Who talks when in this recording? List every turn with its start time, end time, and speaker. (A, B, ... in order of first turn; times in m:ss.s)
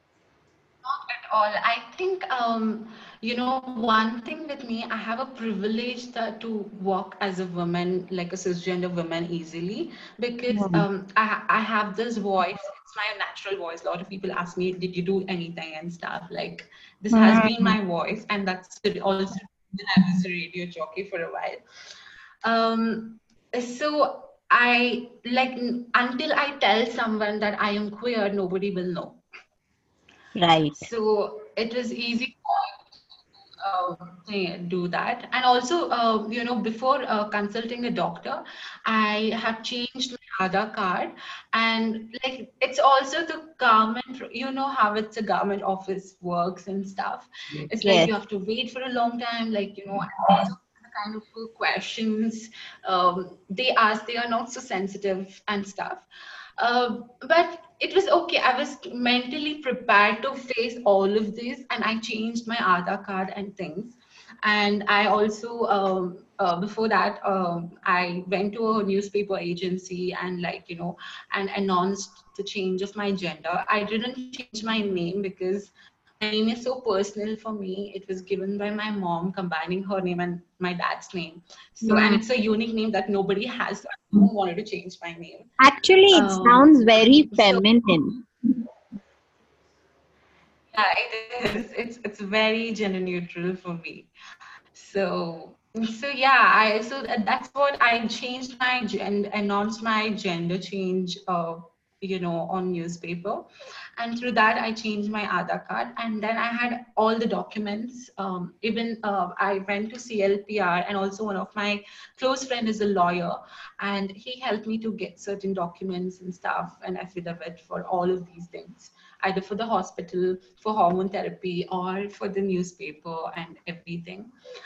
0:00.8-0:21.6 A
0:10.5-0:10.8 B
0:17.1-0:17.7 B
0:22.4-0:29.2 A
0:30.4-0:30.8 B
0:30.7-0:32.7 A
0:33.6-0:56.0 A
0:47.8-0:48.1 B
0:56.6-1:25.5 A
1:21.8-1:22.2 B
1:25.6-1:28.2 B
1:26.1-1:27.6 A
1:30.7-1:34.1 A
1:34.7-2:04.3 A